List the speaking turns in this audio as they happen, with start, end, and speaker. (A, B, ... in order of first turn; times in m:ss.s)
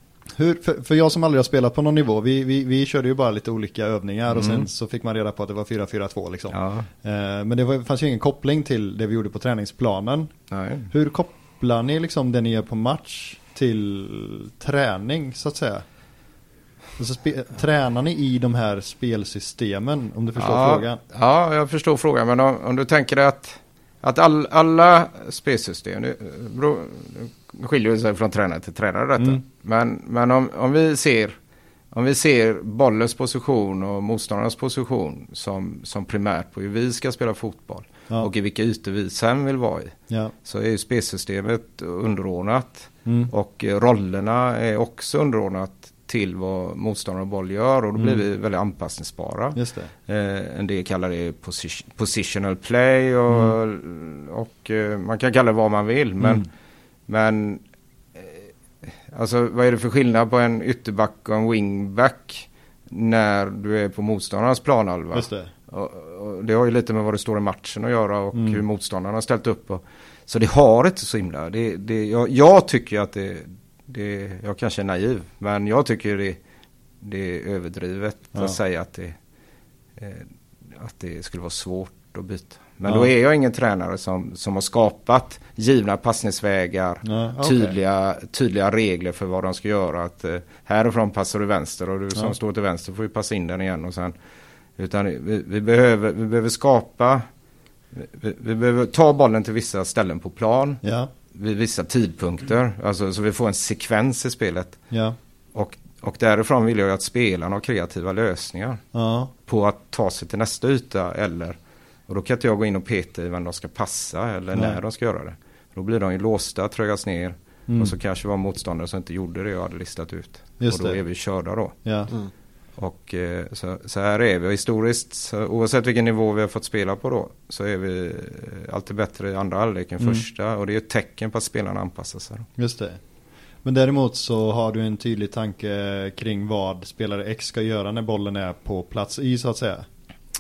0:00.4-0:10.3 A
0:04.3-0:04.7 B
0:06.5-0:06.9 B
0:10.5-0:10.9 B
0:10.9-0:15.8 A
0:17.0-0:21.0 A
0:20.4-0:31.4 B
0:31.9-0:56.5 B
0:43.1-0:43.3 A
0:48.0-0:48.2 A
0:49.6-0:49.9 A
0:53.3-0:53.6 A
0:56.2-0:56.5 A
0:57.1-0:57.6 B
0:58.2-1:16.4 B
1:05.1-1:05.5 A
1:08.3-1:08.6 A
1:17.0-1:19.2 B
1:20.0-1:34.1 B
1:27.0-1:27.8 A
1:34.8-1:37.3 B
1:37.9-1:40.8 B
1:40.8-1:41.1 A
1:41.3-1:44.8 B
1:44.9-1:45.2 A
1:45.5-1:48.8 B
1:48.9-1:49.3 A
1:49.5-1:51.6 B
1:52.1-2:01.8 B
1:57.7-1:57.9 A
2:00.6-2:01.0 A
2:01.8-2:02.1 A
2:02.8-2:12.5 B
2:12.6-2:13.0 A
2:13.6-2:19.9 A